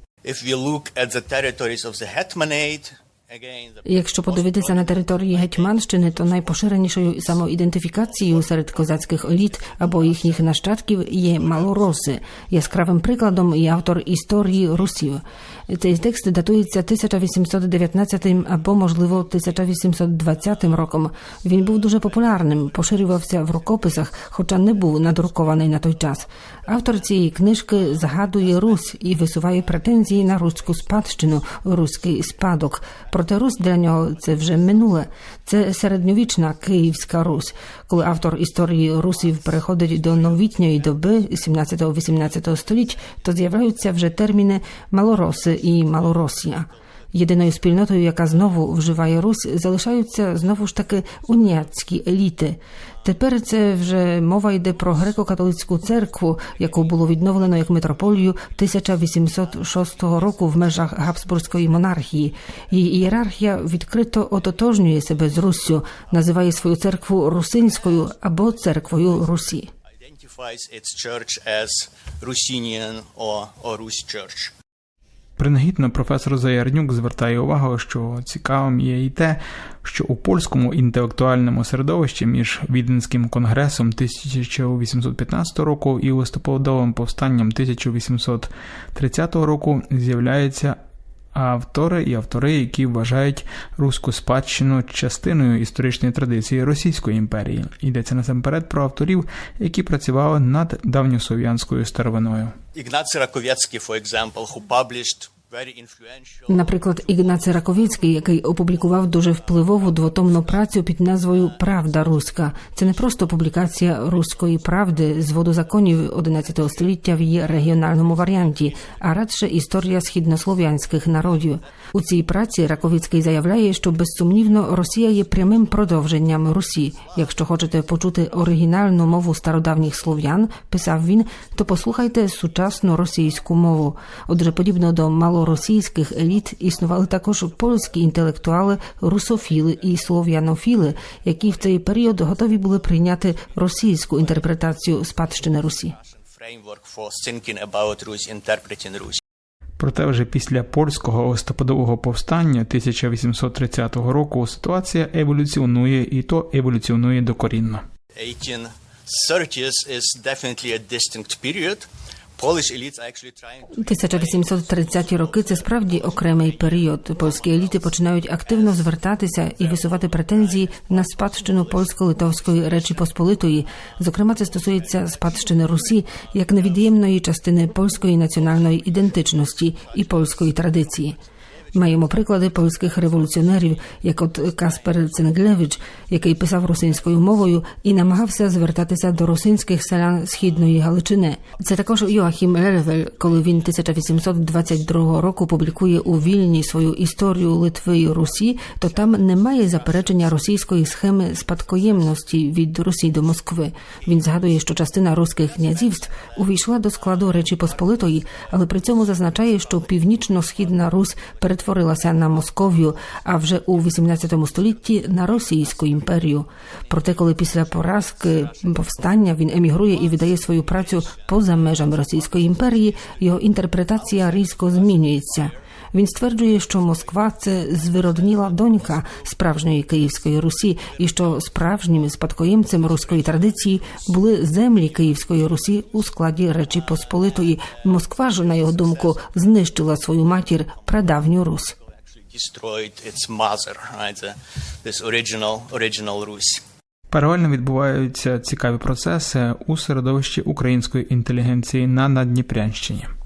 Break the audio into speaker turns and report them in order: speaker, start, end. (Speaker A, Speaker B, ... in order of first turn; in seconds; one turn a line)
Speaker A: 0.2-5.7
Speaker B: 3.9-69.7
Speaker A: 70.0-74.5
Speaker C: 75.4-90.8
Speaker C: 91.3-102.6
Speaker A: 102.7-106.5
Speaker B: 106.5-146.0
Speaker A: 146.2-149.2
Speaker C: 149.8-157.8
Speaker A: 158.1-166.4
Speaker B: 163.7-181.2
Speaker B: 181.7-241.8
Speaker A: 242.3-246.6
Speaker C: 247.1-253.1